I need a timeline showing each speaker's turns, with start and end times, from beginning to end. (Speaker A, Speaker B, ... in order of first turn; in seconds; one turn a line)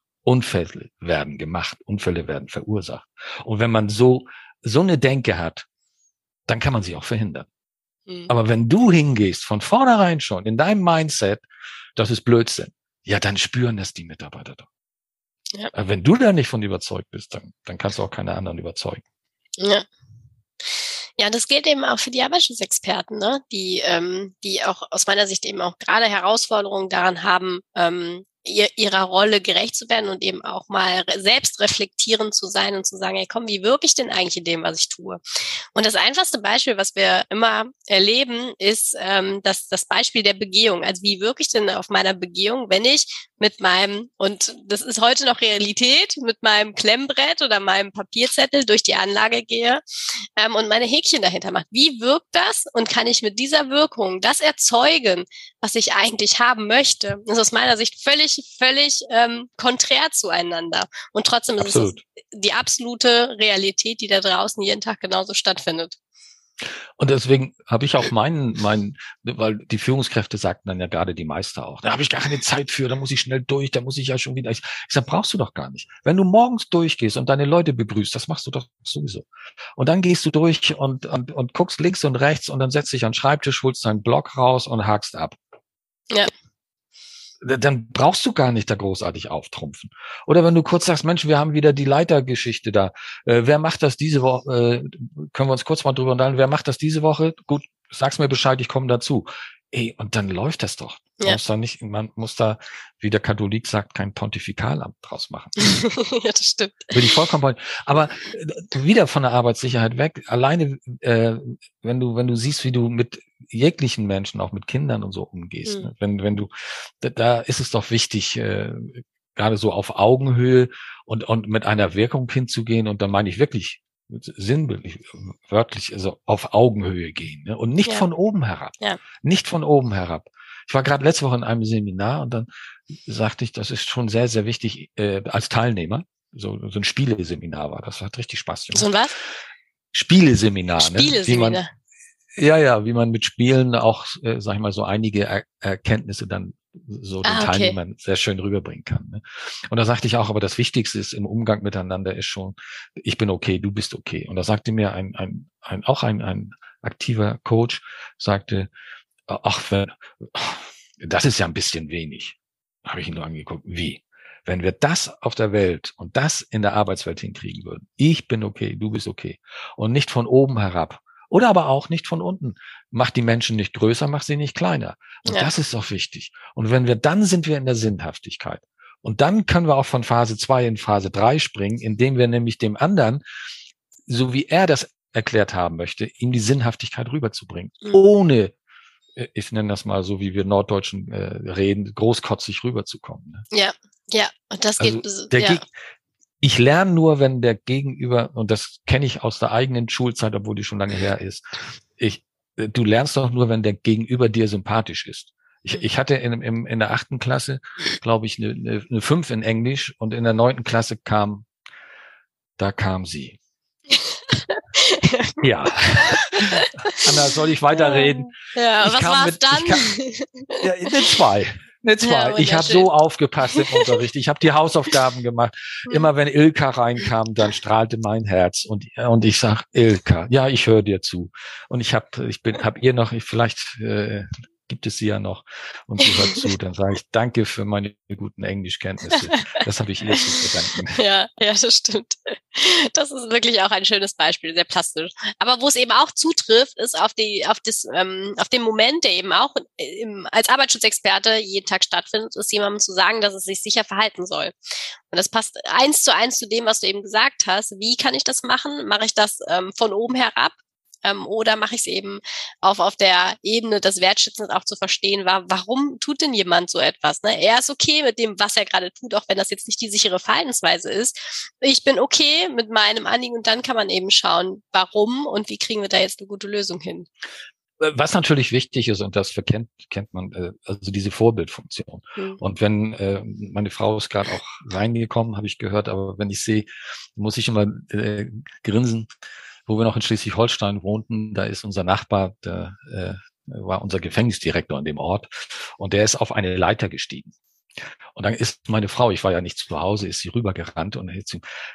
Speaker A: 0.2-5.7
Speaker A: 6.5-7.5
Speaker A: 8.3-11.4
Speaker A: 11.9-14.7
Speaker A: 15.7-19.0
Speaker B: 19.6-19.9
Speaker B: 20.7-35.2
Speaker B: 35.7-49.8
Speaker B: 50.4-66.0
Speaker A: 61.6-62.0
Speaker A: 67.0-85.4
Speaker A: 87.4-105.5
Speaker B: 105.6-107.1
Speaker A: 106.9-132.5
Speaker B: 115.6-115.9
Speaker A: 133.1-138.9
Speaker B: 138.7-139.1
Speaker A: 139.9-141.6
Speaker B: 140.8-141.7
Speaker A: 142.4-158.7
Speaker B: 147.2-147.8
Speaker A: 159.3-183.2
Speaker B: 175.2-175.5
Speaker A: 184.1-188.5
Speaker A: 189.2-193.4
Speaker B: 193.5-195.6
Speaker A: 194.8-195.6
Speaker A: 196.4-211.5
Speaker A: 212.6-213.4
Speaker B: 213.9-215.4
Speaker A: 215.4-219.8
Speaker B: 216.0-217.1
Speaker B: 217.7-221.0
Speaker A: 220.6-241.0
Speaker B: 222.0-222.9
Speaker B: 223.5-223.9
Speaker B: 239.3-239.6
Speaker B: 240.9-254.5
Speaker B: 255.1-277.1
Speaker A: 277.8-289.1
Speaker A: 289.7-297.3
Speaker A: 298.1-301.4